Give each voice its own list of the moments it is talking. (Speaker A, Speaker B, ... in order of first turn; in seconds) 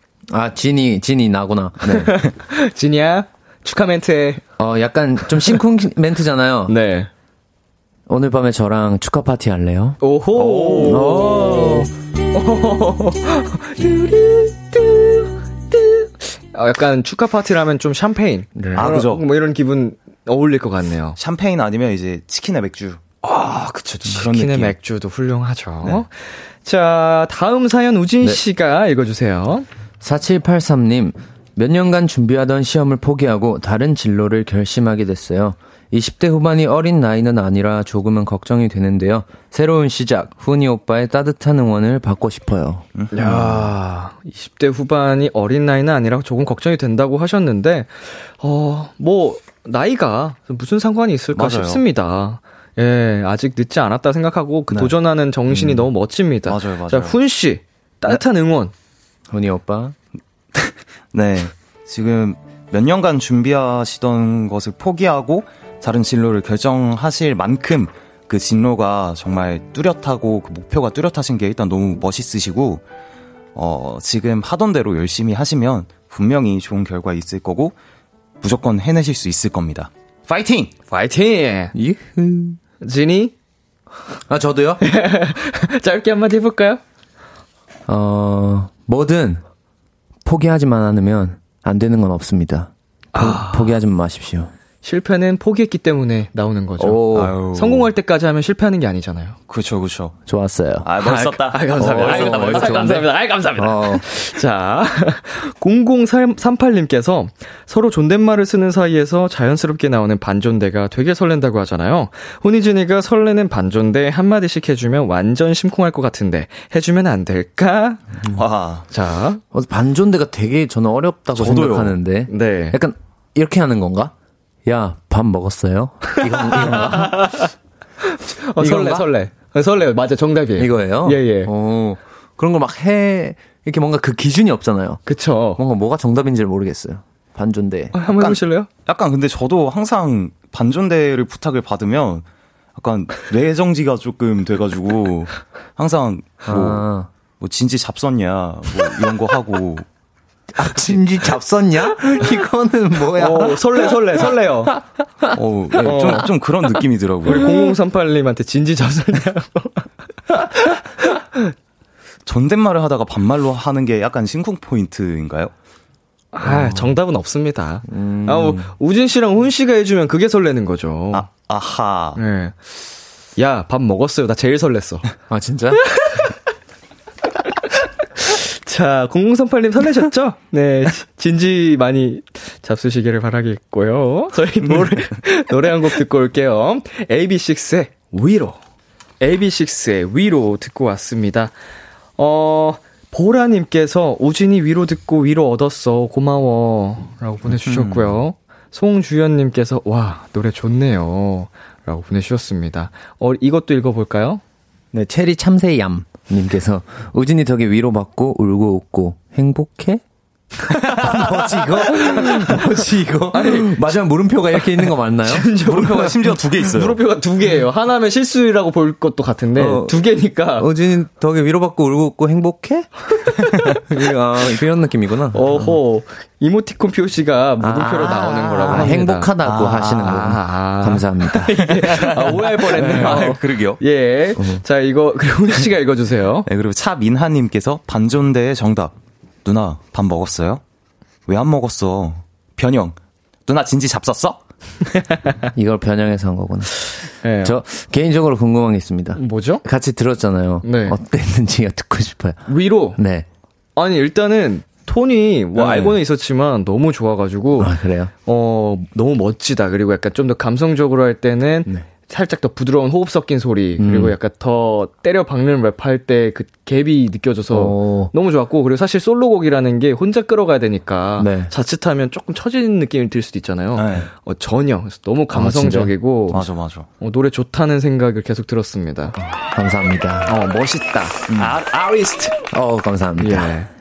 Speaker A: 0.3-2.2, 4.6-6.7, 8.1-10.0, 10.8-11.9, 18.6-18.9, 30.0-43.7, 59.3-60.0, 81.8-82.6, 84.3-84.8, 87.9-89.4, 90.2-94.5, 96.8-97.4, 100.3-100.9, 101.8-104.0, 119.5-124.1, 124.7-127.3, 128.6-129.1, 130.6-135.0, 135.6-137.9, 146.5-147.1, 150.5-153.9, 155.2-156.3, 166.4-167.0, 167.8-168.7, 175.3-176.0, 204.9-210.0, 210.7-216.2, 219.6-219.9, 220.6-225.8, 227.6-231.6, 232.7-233.3, 234.4-234.6, 245.5-253.3, 255.6-256.0, 257.6-258.1, 263.8-264.1, 267.5-268.1, 271.2-271.5, 275.3-275.9, 279.2-280.3, 281.3-281.6, 282.5-283.6
Speaker B: 1.9-4.4, 5.3-5.6, 6.7-7.1, 10.0-21.2, 23.2-29.7, 43.1-58.7, 80.9-81.8, 82.8-83.3, 84.8-86.8, 93.1-93.8, 94.8-99.4, 101.0-118.2, 118.9-119.4, 122.3-122.8, 126.5-131.5, 135.1-135.6, 137.9-138.7, 153.2-154.7, 155.8-156.3, 157.3-161.5, 166.3-171.3, 172.2-172.6, 173.4-175.1, 175.9-176.3, 178.2-188.6, 189.2-191.5, 192.2-204.4, 212.1-212.8, 213.3-213.8, 214.7-220.7, 225.3-229.3, 230.2-236.5, 246.9-247.6, 249.2-249.6, 250.6-251.0, 252.5-253.0, 253.8-276.5, 277.0-279.2, 280.3-282.3, 283.2-283.7
Speaker C: 10.4-11.1, 18.8-19.2, 21.2-23.0, 24.1-24.8, 51.4-51.8, 56.5-57.2, 60.5-72.8, 73.5-77.8, 78.4-80.7, 97.1-97.9, 99.5-100.2, 100.8-103.1, 118.3-118.9, 121.3-122.0, 138.2-146.8, 147.4-149.8, 155.3-157.5, 162.3-165.5, 171.1-172.2, 197.6-198.2, 211.0-211.9, 215.7-217.0, 229.4-230.4, 231.7-233.8, 236.5-238.9, 239.4-240.6, 241.3-244.4, 273.8-274.1, 276.3-276.9, 281.3-282.1